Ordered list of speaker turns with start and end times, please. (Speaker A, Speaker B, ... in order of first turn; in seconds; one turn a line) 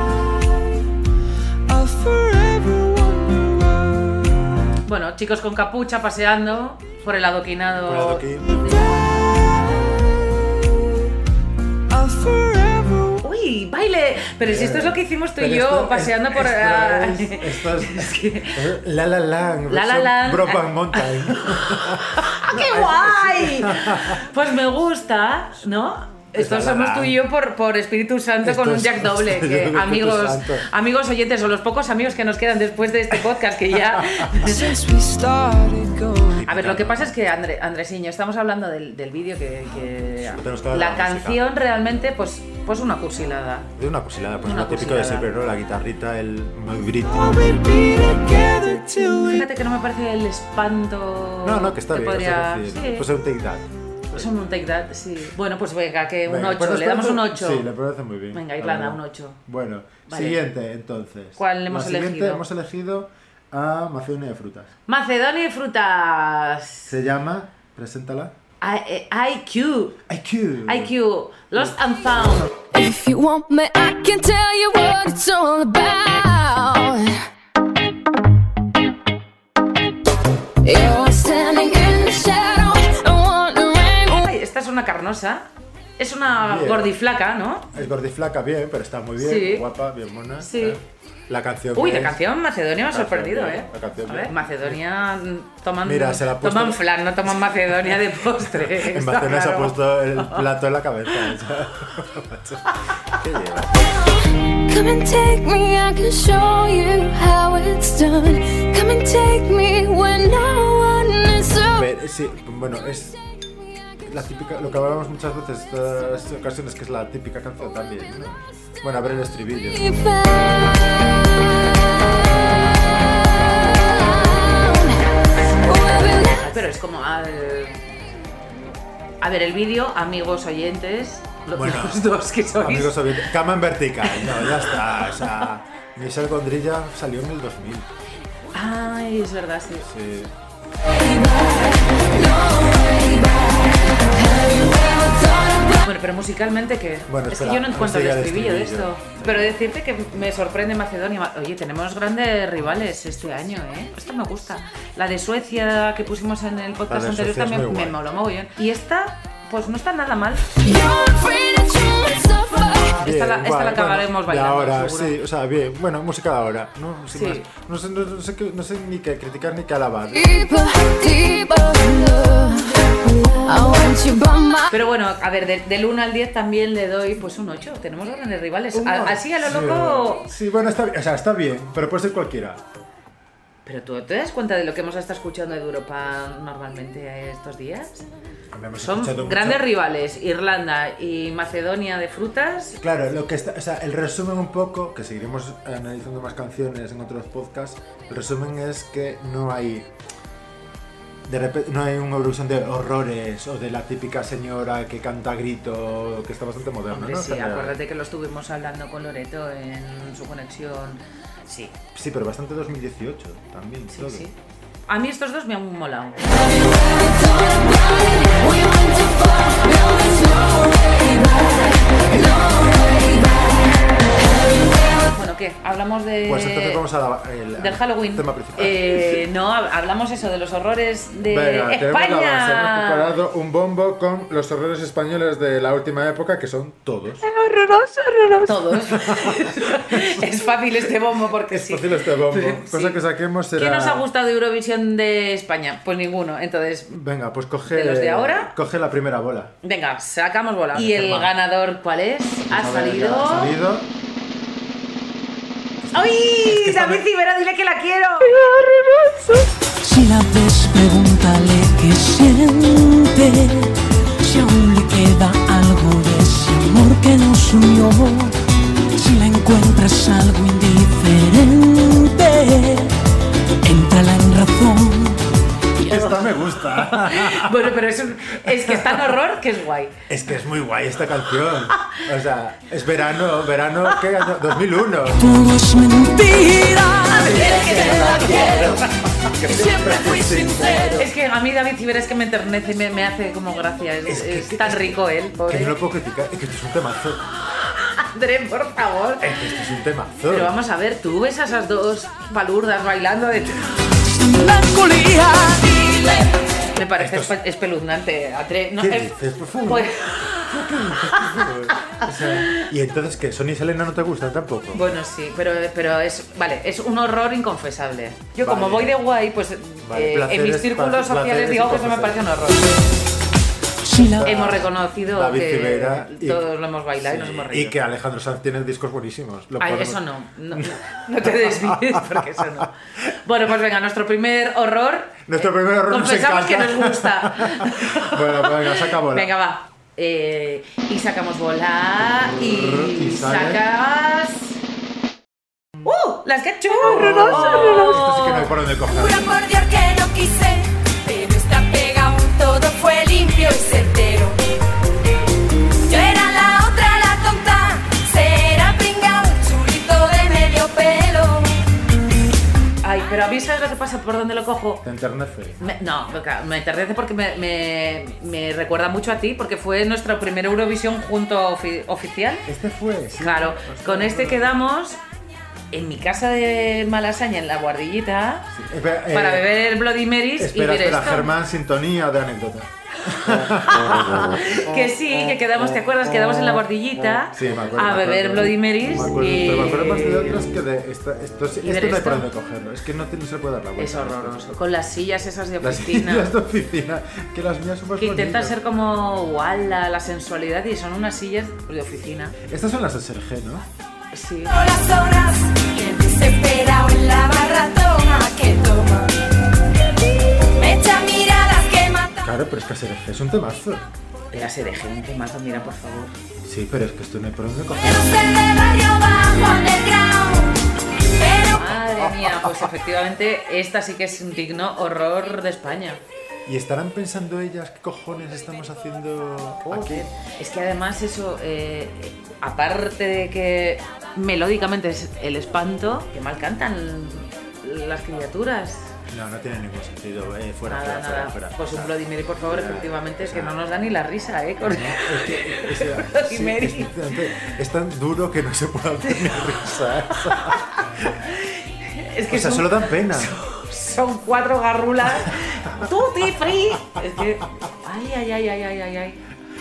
Speaker A: 1.7-4.0
Speaker B: 4.8-8.2
Speaker C: 7.8-8.5
Speaker A: 11.9-13.1
Speaker B: 13.2-18.6
Speaker C: 14.4-24.2
Speaker B: 19.7-34.7
Speaker C: 26.3-27.2
Speaker C: 28.4-30.7
Speaker C: 33.9-34.5
Speaker A: 34.8-35.1
Speaker C: 36.3-37.1
Speaker B: 36.4-43.7
Speaker C: 40.3-41.5
Speaker C: 43.8-47.6
Speaker B: 44.4-45.3
Speaker A: 47.3-49.2
Speaker B: 49.2-53.0
Speaker C: 51.4-54.3
Speaker B: 54.1-57.7
Speaker C: 56.2-64.7
Speaker B: 58.3-59.4
Speaker B: 60.1-60.4
Speaker B: 61.4-62.4
Speaker B: 64.9-66.9
Speaker C: 66.9-68.3
Speaker B: 68.6-70.0
Speaker C: 70.1-70.9
Speaker B: 70.6-72.5
Speaker D: 72.7-77.2
Speaker D: 80.6-84.3
Speaker B: 84.2-85.5
Speaker B: 86.0-87.7
Speaker C: 86.3-86.9
Speaker C: 87.7-92.2
Speaker B: 89.2-89.7
Speaker B: 90.4-90.8
Speaker B: 91.7-100.4
Speaker C: 92.9-94.8
Speaker C: 95.8-96.9
Speaker C: 97.7-103.8
Speaker D: 104.7-111.9
Speaker C: 111.7-113.2
Speaker C: 114.0-119.8
Speaker D: 119.7-125.1
Speaker D: 125.6-126.5
Speaker B: 126.4-127.8
Speaker B: 129.2-133.0
Speaker C: 131.5-137.9
Speaker B: 134.1-134.5
Speaker B: 138.5-139.9
Speaker C: 139.8-140.3
Speaker D: 140.9-145.8
Speaker B: 145.8-160.5
Speaker C: 147.1-149.6
Speaker C: 156.9-158.0
Speaker D: 160.6-163.0
Speaker B: 163.0-165.2
Speaker C: 163.0-170.3
Speaker B: 167.1-167.5
Speaker D: 170.1-172.9
Speaker D: 173.4-174.8
Speaker B: 174.7-180.3
Speaker C: 178.7-182.6
Speaker B: 183.6-188.0
Speaker C: 188.5-189.7
Speaker B: 188.8-192.8
Speaker C: 192.8-199.9
Speaker C: 201.2-207.8
Speaker B: 206.9-211.7
Speaker C: 211.9-214.3
Speaker B: 213.9-214.3
Speaker B: 214.9-216.2
Speaker D: 216.3-223.7
Speaker D: 224.3-225.0
Speaker B: 225.1-226.8
Speaker C: 226.2-229.2
Speaker B: 227.6-233.1
Speaker C: 231.2-237.4
Speaker B: 238.4-243.0
Speaker C: 238.8-240.2
Speaker C: 241.5-244.1
Speaker B: 243.5-246.9
Speaker C: 246.9-249.5
Speaker B: 247.7-248.5
Speaker B: 249.6-253.6
Speaker C: 250.7-251.3
Speaker C: 252.4-253.9
Speaker C: 255.9-257.1
Speaker B: 255.9-258.4
Speaker A: 259.8-268.4
Speaker A: 268.9-272.9
Speaker A: 273.6-275.2
Speaker A: 275.8-276.2
Speaker C: 275.9-277.7
Speaker B: 276.9-280.0
Speaker C: 278.3-279.2
Speaker C: 280.1-285.3
Speaker A: 285.2-288.2
Speaker B: 287.2-288.9
Speaker C: 287.4-291.1
Speaker D: 288.2-288.7
Speaker A: 289.4-291.1
Speaker B: 290.9-295.8
Speaker C: 294.1-297.2
Speaker B: 297.5-299.4
Speaker C: 299.2-300.5
Speaker B: 300.3-303.6
Speaker A: 304.2-305.8
Speaker D: 305.8-306.2
Speaker B: 306.7-312.6
Speaker C: 307.0-307.3
Speaker C: 308.8-315.0
Speaker B: 314.7-322.8
Speaker C: 318.4-319.0
Speaker C: 319.8-322.2
Speaker A: 323.8-324.2
Speaker C: 324.0-332.7
Speaker B: 324.2-327.8
Speaker B: 329.6-335.3
Speaker C: 335.3-339.3
Speaker B: 335.9-344.6
Speaker C: 342.0-343.6
Speaker B: 345.8-348.5
Speaker C: 346.8-349.4
Speaker E: 357.0-358.0
Speaker E: 358.6-361.2
Speaker B: 362.8-364.8
Speaker C: 364.8-365.6
Speaker B: 365.6-372.4
Speaker C: 372.4-374.5
Speaker B: 373.1-375.0
Speaker B: 375.7-378.5
Speaker C: 378.5-379.5
Speaker B: 379.1-381.3
Speaker C: 380.4-384.3
Speaker B: 383.8-390.4
Speaker C: 387.3-394.6
Speaker B: 391.6-392.3
Speaker B: 393.8-396.3
Speaker C: 395.6-398.6
Speaker B: 398.0-402.4
Speaker C: 402.5-403.7
Speaker B: 404.1-404.6
Speaker D: 406.0-406.4
Speaker E: 406.5-409.0
Speaker D: 411.4-411.9
Speaker C: 412.2-413.9
Speaker B: 414.3-416.1
Speaker C: 416.4-418.2
Speaker D: 418.1-419.6
Speaker E: 419.7-420.2
Speaker B: 421.4-426.0
Speaker C: 421.6-422.7
Speaker C: 426.4-430.1
Speaker B: 429.7-438.9
Speaker C: 439.1-443.5
Speaker B: 440.7-447.5
Speaker C: 444.6-451.1
Speaker B: 450.3-459.2
Speaker C: 452.3-453.3